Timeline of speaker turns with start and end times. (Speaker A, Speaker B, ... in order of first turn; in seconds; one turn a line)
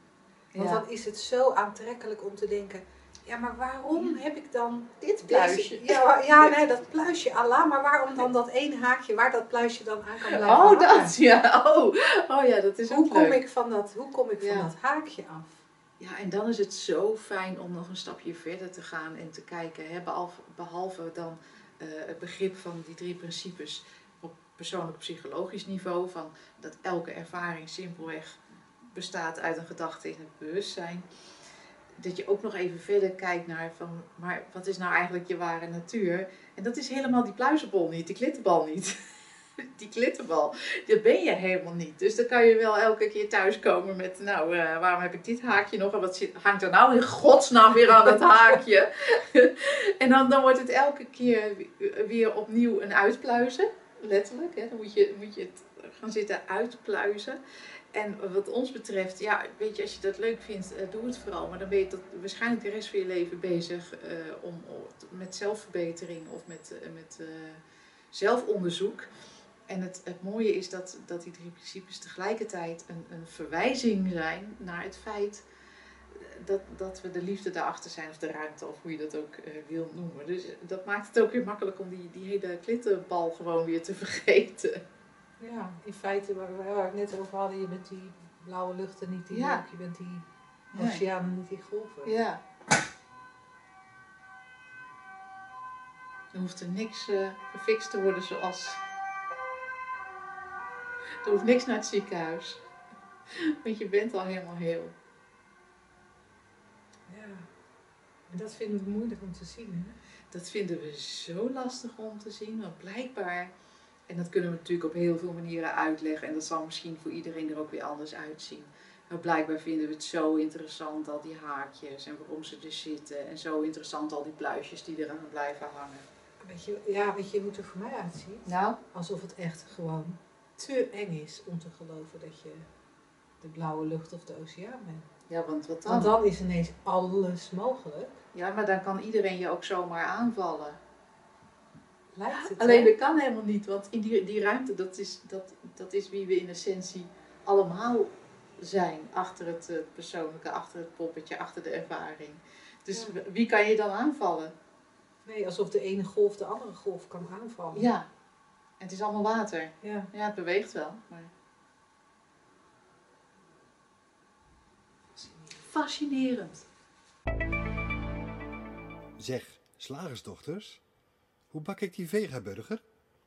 Speaker A: 0.5-0.8
Speaker B: 0.6-11.2
Speaker A: 5.0-6.5
Speaker A: 10.3-13.4
Speaker B: 12.9-15.6
Speaker A: 14.4-14.7
Speaker A: 16.0-31.1
Speaker A: 32.0-39.0
Speaker A: 39.8-57.4
Speaker A: 57.9-67.6
Speaker A: 68.1-69.1
Speaker A: 69.7-75.4
Speaker A: 76.1-84.8
Speaker B: 85.4-92.1
Speaker A: 89.3-89.6
Speaker A: 90.7-91.0
Speaker A: 92.0-92.4
Speaker A: 96.3-98.8
Speaker A: 101.2-102.6
Speaker A: 103.3-104.9
Speaker B: 107.1-107.5
Speaker B: 108.3-110.0
Speaker A: 110.3-113.5
Speaker A: 114.1-126.0
Speaker B: 126.4-132.7
Speaker A: 128.4-128.8
Speaker B: 133.4-135.1
Speaker A: 135.3-136.1
Speaker B: 135.9-138.2
Speaker A: 138.3-140.8
Speaker B: 142.1-142.9
Speaker A: 142.3-154.5
Speaker B: 155.2-157.9
Speaker A: 157.7-158.1
Speaker A: 158.8-161.3
Speaker B: 159.8-160.1
Speaker A: 165.6-166.7
Speaker C: 169.2-170.8
Speaker C: 171.5-172.8